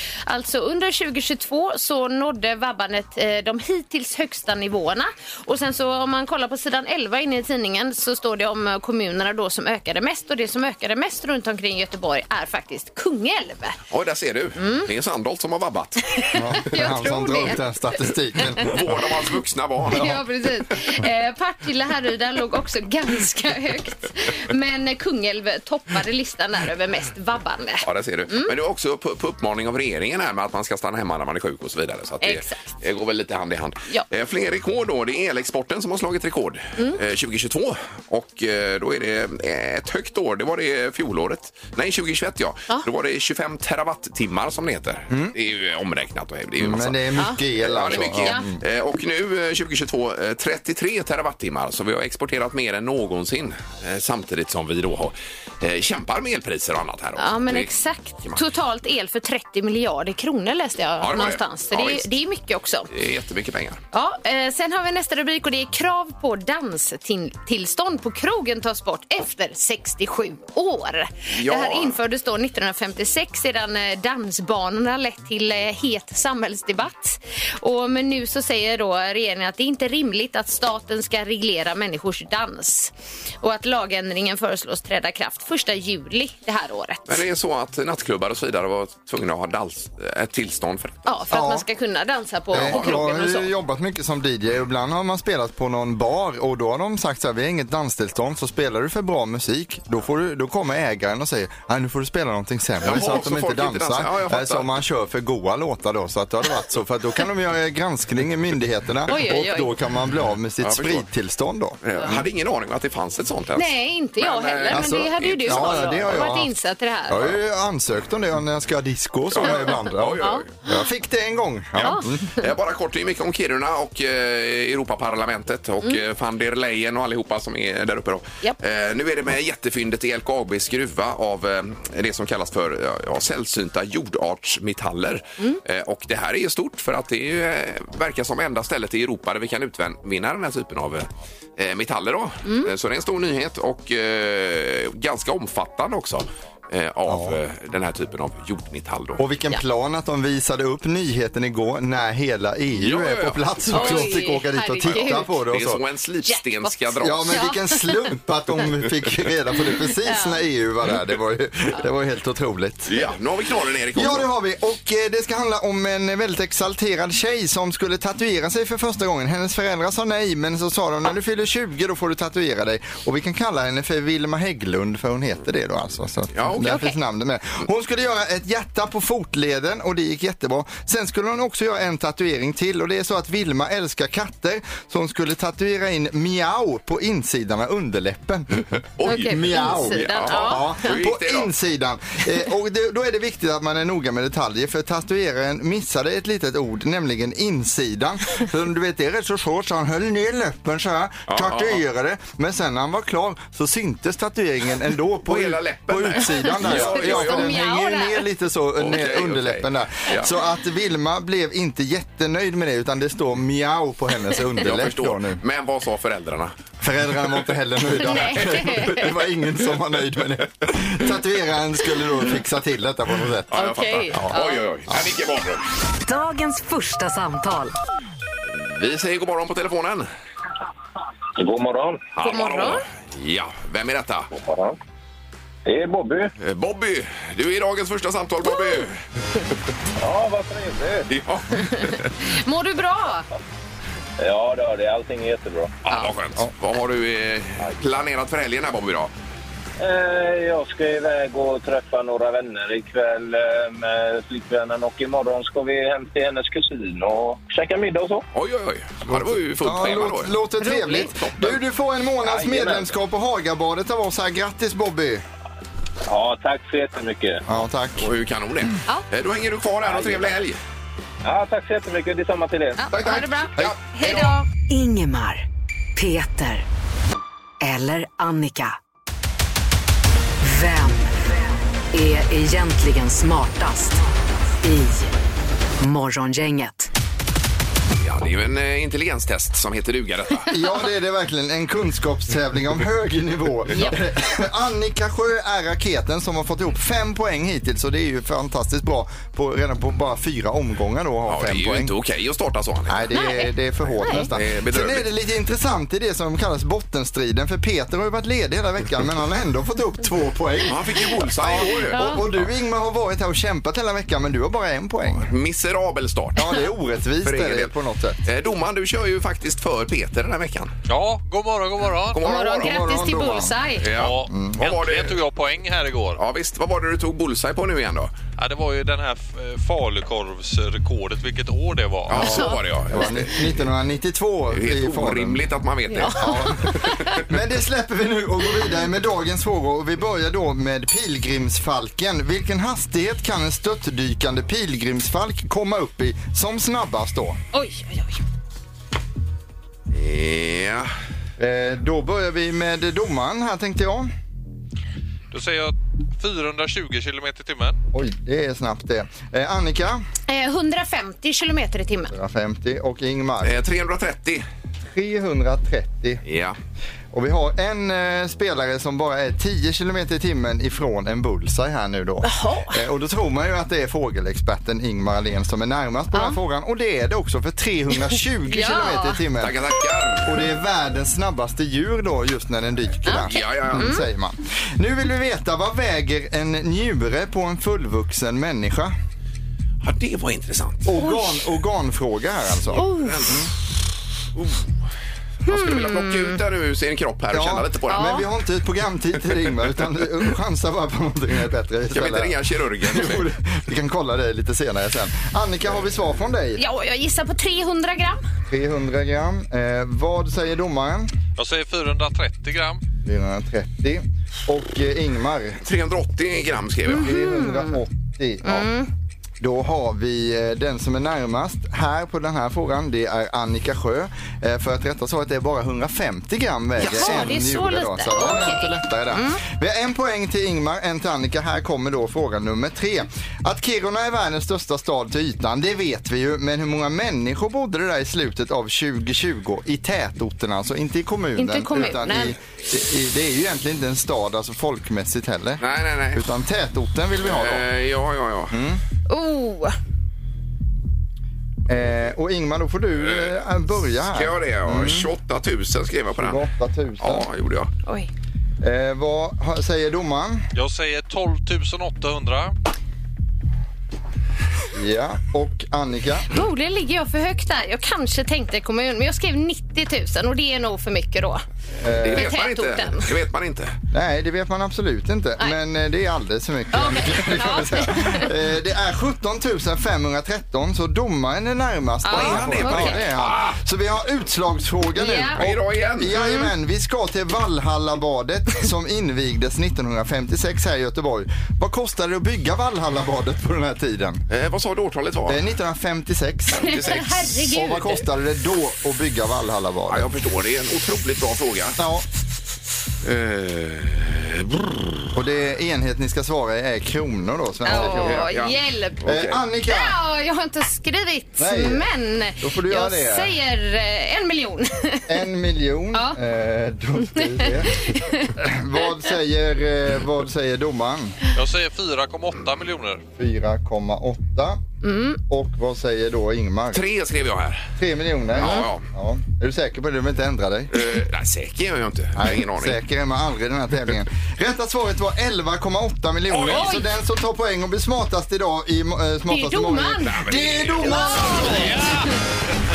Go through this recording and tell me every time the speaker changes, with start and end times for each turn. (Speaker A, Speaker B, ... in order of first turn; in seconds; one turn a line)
Speaker A: 0.3-13.8
Speaker B: 13.9-16.8
Speaker A: 14.6-14.9
Speaker A: 16.1-17.6
Speaker C: 16.3-18.8
Speaker B: 18.6-20.2
Speaker A: 19.9-28.5
Speaker B: 27.8-47.0
Speaker A: 32.2-32.6
Speaker C: 45.1-45.4
Speaker C: 46.6-48.6
Speaker B: 47.6-57.7
Speaker A: 47.9-48.5
Speaker A: 57.2-62.9
Speaker B: 61.0-62.1
Speaker B: 62.9-63.8
Speaker A: 63.9-87.2
Speaker B: 71.3-72.0
Speaker B: 87.1-91.1
Speaker A: 91.1-93.5
Speaker C: 91.3-91.7
Speaker B: 92.5-93.1
Speaker C: 92.5-112.2
Speaker B: 102.8-104.7
Speaker A: 109.1-109.7
Speaker B: 110.6-111.1
Speaker B: 111.8-116.3
Speaker A: 113.6-117.3
Speaker C: 114.7-116.5
Speaker C: 117.1-122.4
Speaker B: 119.3-120.5
Speaker A: 120.2-120.8
Speaker B: 121.8-149.2
Speaker A: 121.8-122.1
Speaker A: 142.4-142.7
Speaker C: 147.1-147.4
Speaker C: 149.2-155.8
Speaker B: 152.8-154.2
Speaker A: 153.7-155.3
Speaker B: 154.8-157.4
Speaker A: 156.3-156.7
Speaker C: 157.0-163.0
Speaker A: 157.3-158.1
Speaker A: 160.0-160.4
Speaker B: 162.9-164.3
Speaker C: 163.9-215.4
Speaker B: 176.3-176.8
Speaker A: 176.6-176.9
Speaker B: 189.0-191.5
Speaker A: 189.1-190.9
Speaker B: 201.3-201.8
Speaker B: 205.3-207.5
Speaker A: 206.4-208.2
Speaker B: 208.8-210.3
Speaker B: 214.6-216.5
Speaker C: 216.8-223.7
Speaker A: 218.0-219.1
Speaker B: 223.5-225.7
Speaker A: 223.5-224.6
Speaker D: 226.0-227.8
Speaker B: 228.5-230.1
Speaker E: 231.4-232.1
Speaker B: 232.2-234.3
Speaker A: 232.2-232.8
Speaker E: 234.3-234.8
Speaker E: 235.7-236.3
Speaker B: 236.4-239.0
Speaker E: 240.0-241.1
Speaker B: 241.1-242.1
Speaker A: 241.6-243.3
Speaker E: 244.2-245.7
Speaker B: 245.8-249.1
Speaker E: 249.8-258.2
Speaker B: 258.3-260.3
Speaker C: 259.1-265.2
Speaker A: 260.6-261.1
Speaker B: 261.1-261.6
Speaker E: 262.2-262.9
Speaker E: 266.1-267.4
Speaker C: 267.5-268.1
Speaker B: 268.0-270.6
Speaker E: 269.9-270.4
Speaker E: 271.2-272.8
Speaker A: 272.8-274.5
Speaker B: 272.9-274.3
Speaker D: 274.7-275.4
Speaker D: 276.0-276.7
Speaker D: 277.6-278.8
Speaker D: 280.4-281.3
Speaker D: 281.9-284.0
Speaker D: 284.6-285.1
Speaker D: 285.8-286.9
Speaker B: 288.0-290.5
Speaker C: 290.5-301.9
Speaker B: 301.3-303.1
Speaker C: 302.9-315.3
Speaker A: 303.1-303.5
Speaker A: 304.0-304.3
Speaker B: 304.3-305.1
Speaker B: 310.7-312.5
Speaker A: 311.9-312.2
Speaker B: 315.2-316.4
Speaker C: 316.4-318.2
Speaker B: 317.2-317.7
Speaker B: 318.2-320.7
Speaker F: 320.9-322.2
Speaker B: 322.1-322.7
Speaker A: 322.2-323.9
Speaker C: 322.3-323.5
Speaker B: 323.8-325.1
Speaker F: 323.9-326.2
Speaker C: 324.3-324.6
Speaker B: 326.2-328.1
Speaker F: 328.4-332.4
Speaker B: 332.1-333.4
Speaker A: 332.2-332.5
Speaker C: 332.9-335.4
Speaker B: 334.5-337.3
Speaker A: 335.9-337.1
Speaker C: 336.2-347.4
Speaker A: 347.5-348.2
Speaker B: 349.9-350.9
Speaker C: 351.4-354.1
Speaker F: 355.3-357.8
Speaker C: 357.9-360.0
Speaker A: 360.3-362.1
Speaker C: 362.1-363.6
Speaker B: 363.4-364.4
Speaker C: 364.9-366.2
Speaker B: 366.3-366.6
Speaker C: 367.1-379.6
Speaker A: 372.2-372.8
Speaker A: 378.5-379.2
Speaker B: 379.4-380.4
Speaker C: 380.2-388.9
Speaker A: 383.1-384.0
Speaker B: 383.2-384.0
Speaker B: 389.8-391.0
Speaker C: 390.9-393.5
Speaker B: 392.8-393.5
Speaker A: 392.8-393.3
Speaker B: 394.4-394.7
Speaker B: 395.5-398.1
Speaker A: 395.5-396.4
Speaker C: 397.3-406.6
Speaker A: 397.9-398.2
Speaker B: 401.9-403.3
Speaker A: 406.6-408.2
Speaker C: 408.5-411.1
Speaker F: 411.4-412.8
Speaker C: 413.0-415.6
Speaker B: 415.6-417.1
Speaker A: 416.9-417.8
Speaker C: 416.9-418.7
Speaker A: 418.4-418.9
Speaker C: 419.4-447.7
Speaker B: 426.8-427.3
Speaker A: 426.8-429.4
Speaker A: 441.4-442.4
Speaker B: 445.6-446.2
Speaker B: 447.2-448.6
Speaker C: 448.5-448.8
Speaker A: 449.1-449.8
Speaker C: 451.7-455.1
Speaker B: 453.0-453.4
Speaker B: 454.0-456.4
Speaker C: 456.2-457.3
Speaker B: 457.0-457.7
Speaker C: 458.6-460.5
Speaker F: 460.6-462.5
Speaker C: 464.7-466.3
Speaker A: 466.3-471.4
Speaker C: 471.8-472.3
Speaker B: 472.0-473.8
Speaker A: 472.1-473.1
Speaker C: 473.9-494.2
Speaker A: 476.7-478.3
Speaker A: 482.1-483.0
Speaker B: 482.1-483.6
Speaker A: 485.0-485.4
Speaker B: 485.4-486.1
Speaker A: 486.2-486.5
Speaker B: 494.3-495.5
Speaker C: 495.3-497.0
Speaker B: 496.6-497.4
Speaker A: 496.6-498.0
Speaker C: 497.5-500.1
Speaker B: 499.9-501.8
Speaker C: 501.8-502.1
Speaker B: 503.0-505.0
Speaker C: 505.1-508.3
Speaker A: 507.6-509.0
Speaker B: 507.7-509.4
Speaker C: 509.0-510.0
Speaker A: 509.7-515.1
Speaker C: 511.4-511.9
Speaker C: 512.4-513.3
Speaker C: 515.1-521.2
Speaker A: 517.1-518.3
Speaker F: 521.3-523.0
Speaker C: 523.2-524.6
Speaker A: 524.8-525.2
Speaker C: 525.3-526.8
Speaker B: 526.7-527.7
Speaker C: 527.8-530.8
Speaker B: 528.3-528.9
Speaker B: 530.7-532.8
Speaker C: 532.2-541.8
Speaker B: 536.3-536.7
Speaker A: 536.5-536.9
Speaker A: 539.3-540.3
Speaker B: 540.1-541.9
Speaker A: 540.8-542.1